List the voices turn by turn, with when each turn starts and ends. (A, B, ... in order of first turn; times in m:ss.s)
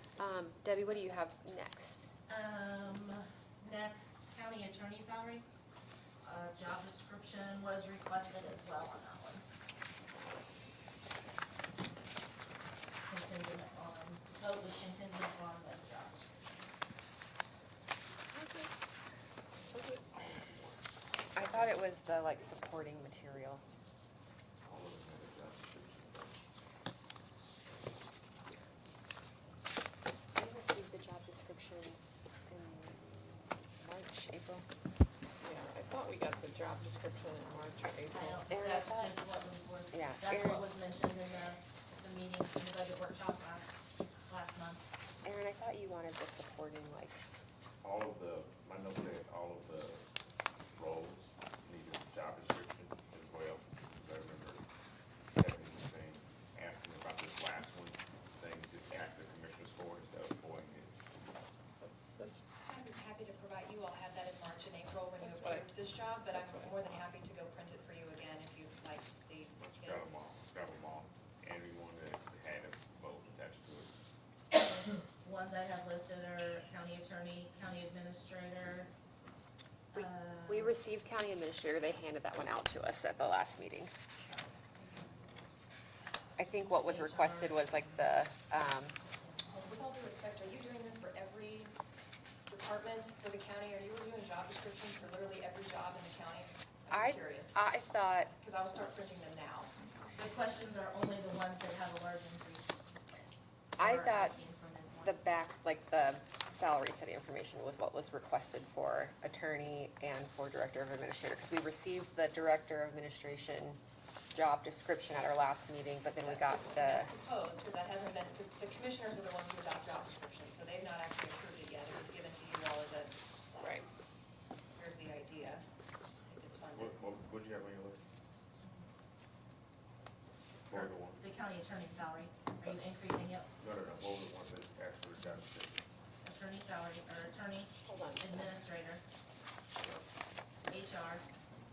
0:00.2-0:02.0 A
0:02.3-0:05.4 B
0:06.2-0:09.4 B
0:13.0-0:16.7 B
0:18.3-0:18.8 C
0:19.7-0:20.3 C
0:20.2-0:20.8 D
0:21.3-0:23.6 A
0:24.6-0:26.4 D
0:30.3-0:34.6 A
0:35.4-0:38.4 C
0:38.1-0:43.7 B
0:38.5-0:39.2 A
0:39.9-0:40.6 A
0:44.2-0:44.8 B
0:45.2-0:47.2 A
0:47.8-0:50.0 D
0:50.7-0:54.6 D
0:55.3-1:00.9 D
1:01.8-1:02.4 C
1:02.6-1:10.2 E
1:05.2-1:05.7 C
1:06.3-1:06.9 C
1:09.6-1:13.9 D
1:14.5-1:18.9 B
1:19.9-1:23.9 A
1:19.9-1:20.8 B
1:26.4-1:29.0 A
1:26.6-1:29.7 B
1:29.6-1:31.7 E
1:32.5-1:37.6 E
1:36.9-1:38.3 A
1:38.4-1:39.7 E
1:40.1-1:42.8 B
1:43.8-1:44.4 A
1:43.8-1:45.2 B
1:45.0-1:53.8 A
1:54.3-1:57.1 A
1:56.2-2:03.8 E
2:04.8-2:05.6 E
2:06.3-2:07.0 E
2:06.7-2:08.1 D
2:10.7-2:11.2 D
2:10.7-2:13.5 B
2:13.6-2:15.8 D
2:16.2-2:19.0 B
2:17.8-2:18.5 C
2:19.8-2:20.0 D
2:20.7-2:21.2 B